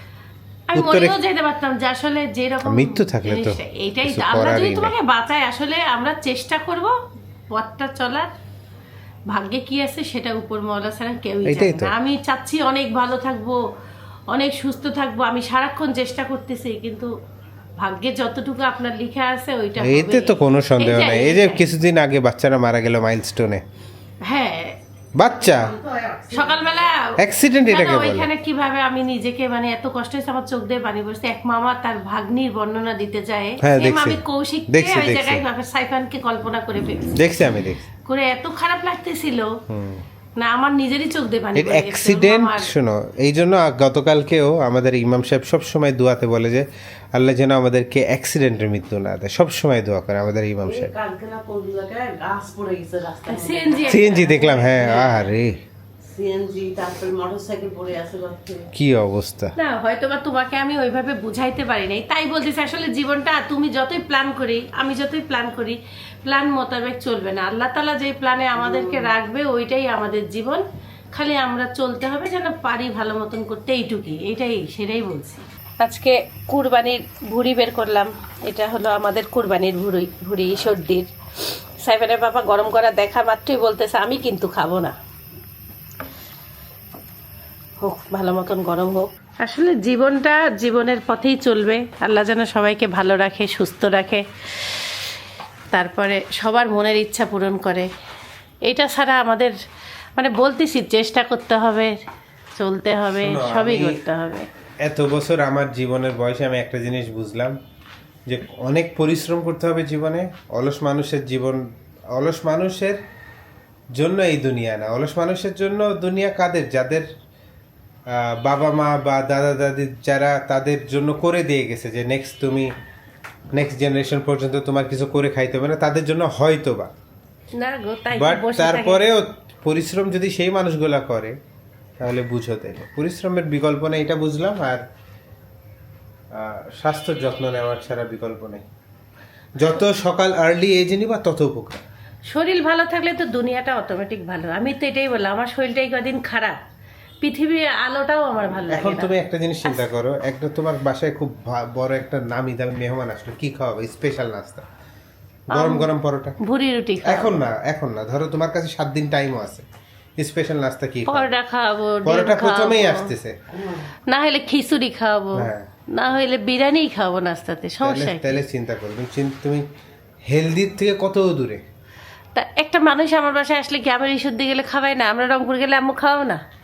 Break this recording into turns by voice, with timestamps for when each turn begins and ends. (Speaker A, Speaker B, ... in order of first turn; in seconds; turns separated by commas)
Speaker A: 0.7-7.0, Speaker B: 0.8-1.2, Speaker B: 2.6-4.9, Speaker A: 7.5-8.3, Speaker A: 9.3-13.6, Speaker B: 11.4-11.9, Speaker A: 14.3-17.1, Speaker A: 17.8-21.6, Speaker B: 19.8-23.6, Speaker A: 24.3-24.8, Speaker B: 25.2-25.7, Speaker C: 25.4-26.9, Speaker A: 26.3-27.0, Speaker B: 27.2-28.3, Speaker A: 27.7-37.2, Speaker B: 33.6-35.4, Speaker B: 37.2-37.9, Speaker A: 38.1-39.6, Speaker B: 39.7-40.0, Speaker A: 40.4-42.7, Speaker B: 41.5-50.9, Speaker C: 50.6-55.1, Speaker A: 53.3-54.7, Speaker B: 53.9-55.5, Speaker C: 56.1-58.7, Speaker B: 58.7-59.5, Speaker A: 59.6-85.0, Speaker C: 68.6-69.1, Speaker A: 87.8-94.2, Speaker A: 95.7-97.9, Speaker A: 98.7-99.5, Speaker A: 100.2-102.0, Speaker A: 102.6-104.5, Speaker B: 103.2-104.0, Speaker B: 104.8-107.6, Speaker B: 108.3-111.6, Speaker B: 112.1-113.0, Speaker B: 114.0-117.1, Speaker B: 118.1-122.7, Speaker B: 123.5-126.9, Speaker A: 127.6-129.0, Speaker B: 128.2-131.4, Speaker B: 132.0-134.8, Speaker B: 136.3-138.7, Speaker B: 139.6-141.8, Speaker A: 142.3-146.6, Speaker A: 147.2-149.1, Speaker B: 148.7-154.7, Speaker A: 155.5-155.9, Speaker B: 155.5-156.4, Speaker A: 156.4-157.4, Speaker B: 157.0-159.7, Speaker B: 160.2-161.4, Speaker A: 161.1-163.1, Speaker B: 162.1-163.4, Speaker C: 163.5-163.9, Speaker A: 164.1-168.3, Speaker B: 165.3-165.7, Speaker B: 167.8-169.6, Speaker B: 170.3-171.6, Speaker A: 172.3-176.4